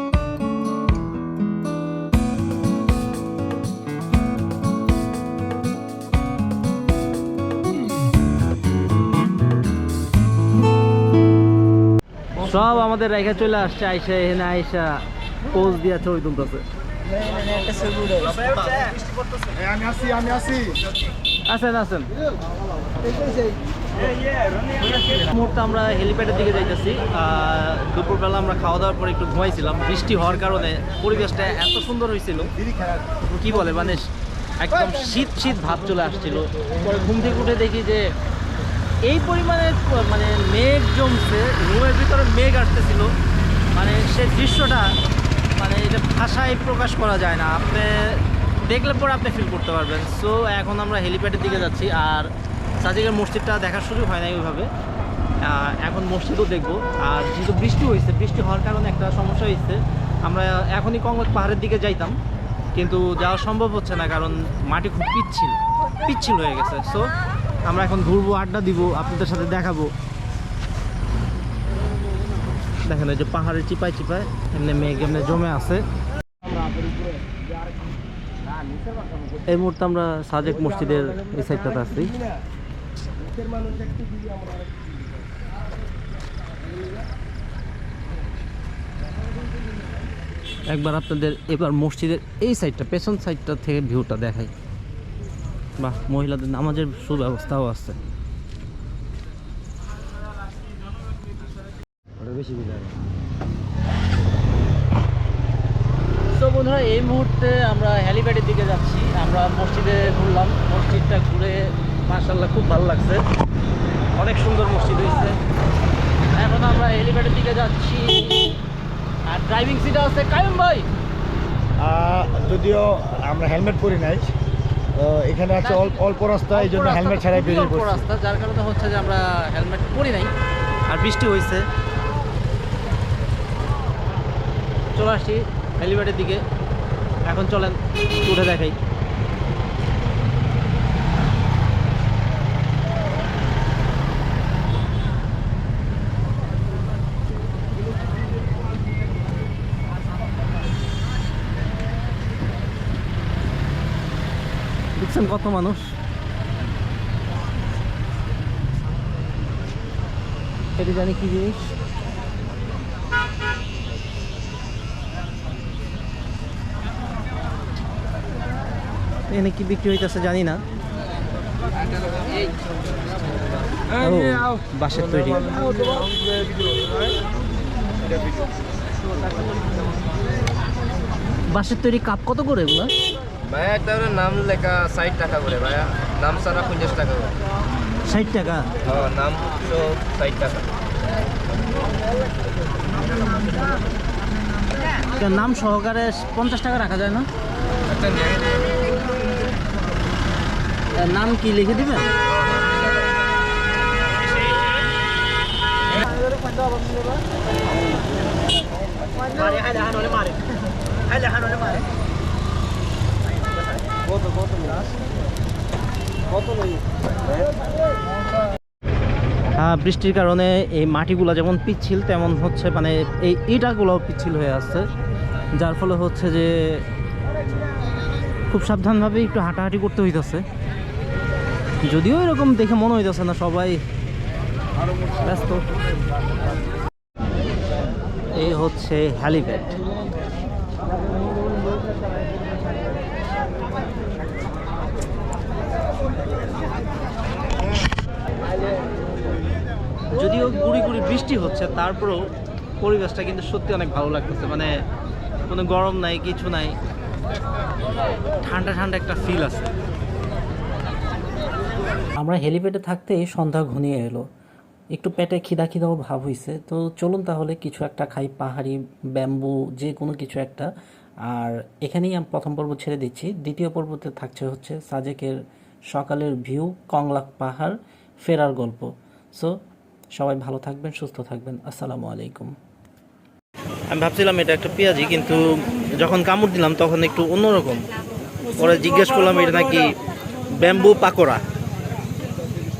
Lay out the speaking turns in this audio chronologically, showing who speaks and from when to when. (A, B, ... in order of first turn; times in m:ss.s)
0:12.4-0:16.6 A
0:17.5-0:18.9 A
0:19.5-0:20.8 B
0:21.5-0:22.1 A
0:24.8-0:32.5 A
0:33.3-0:34.1 A
0:34.6-0:38.1 A
0:39.0-0:43.1 A
0:43.7-0:44.9 A
0:45.6-0:52.3 A
0:52.8-0:54.7 A
0:55.4-1:02.2 A
1:02.7-1:07.1 A
1:07.7-1:09.9 A
1:12.8-1:15.8 A
1:19.5-1:22.1 A
1:30.7-1:34.5 A
1:35.8-1:38.0 A
1:46.3-1:53.2 A
1:54.2-1:55.4 A
1:56.3-1:58.5 A
1:59.3-2:00.9 A
2:01.8-2:04.3 B
2:05.0-2:08.1 B
2:05.6-2:06.0 A
2:06.5-2:10.3 A
2:10.9-2:11.7 A
2:14.9-2:16.4 A
2:17.3-2:18.8 A
2:35.0-2:35.9 A
2:40.8-2:41.6 A
2:49.3-2:50.6 A
2:53.9-2:55.7 A
2:58.1-2:58.5 C
3:01.5-3:02.9 A
3:03.4-3:07.4 C
3:08.0-3:08.7 A
3:08.8-3:10.7 C
3:15.0-3:17.3 A
3:17.9-3:18.7 C
3:20.9-3:22.1 A
3:29.2-3:30.5 A
3:31.1-3:31.8 A
3:39.5-3:44.9 A
3:45.6-3:46.9 A
3:48.5-3:50.5 A
3:51.8-3:53.8 A
3:55.1-3:55.6 A
3:58.3-3:59.8 A
4:10.1-4:12.2 A
4:12.8-4:14.7 A
4:15.5-4:16.8 A
4:18.4-4:19.7 A
4:22.2-4:24.3 A
4:24.9-4:30.7 A
4:31.3-4:35.4 A
4:35.9-4:39.6 A
4:40.2-4:42.5 A
4:43.9-4:47.9 A
4:48.6-4:49.9 A
4:50.5-4:51.4 A